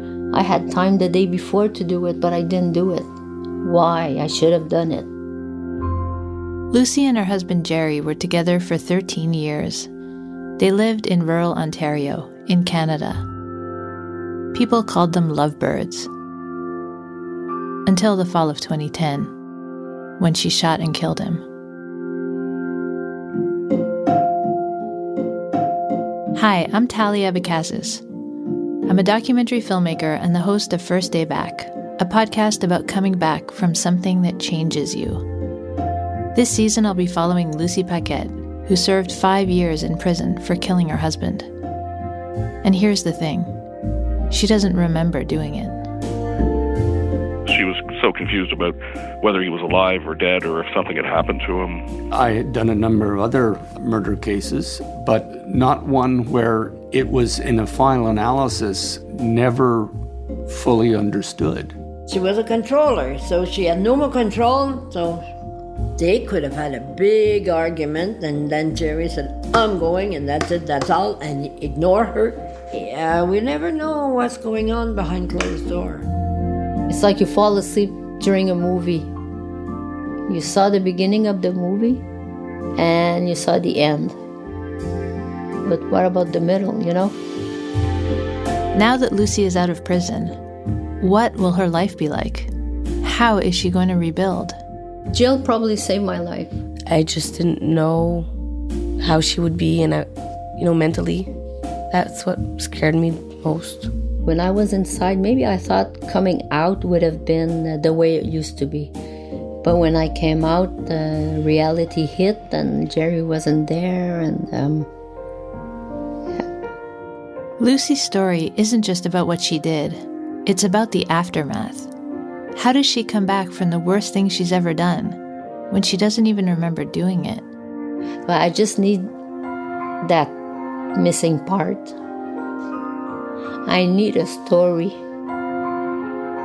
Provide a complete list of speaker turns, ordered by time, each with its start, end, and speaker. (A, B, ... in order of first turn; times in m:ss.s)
0:00.3-0:03.1 A
0:03.6-0:05.1 A
0:06.7-0:09.9 B
0:10.6-0:13.3 B
0:14.5-0:16.1 B
0:17.9-0:19.3 B
0:20.2-0:21.4 B
0:26.3-0:28.0 B
0:28.9-0:35.3 B
0:36.3-0:41.5 B
0:42.6-0:43.5 B
0:44.3-0:45.8 B
0:47.5-0:51.8 C
0:52.1-0:59.9 D
1:00.5-1:01.8 D
1:02.1-1:05.2 E
1:06.0-1:16.1 E
1:16.9-1:19.1 A
1:20.3-1:22.0 A
1:22.8-1:24.2 A
1:25.6-1:27.2 A
1:28.7-1:30.4 B
1:31.0-1:32.5 B
1:33.0-1:34.6 B
1:35.1-1:36.6 A
1:36.9-1:38.3 F
1:39.0-1:41.3 F
1:41.9-1:43.9 F
1:44.2-1:48.9 A
1:49.6-1:54.9 A
1:57.6-2:01.9 B
2:02.6-2:05.2 B
2:05.7-2:07.5 B
2:08.3-2:09.1 A
2:10.0-2:10.3 A
2:11.0-2:12.0 A
2:13.7-2:15.0 A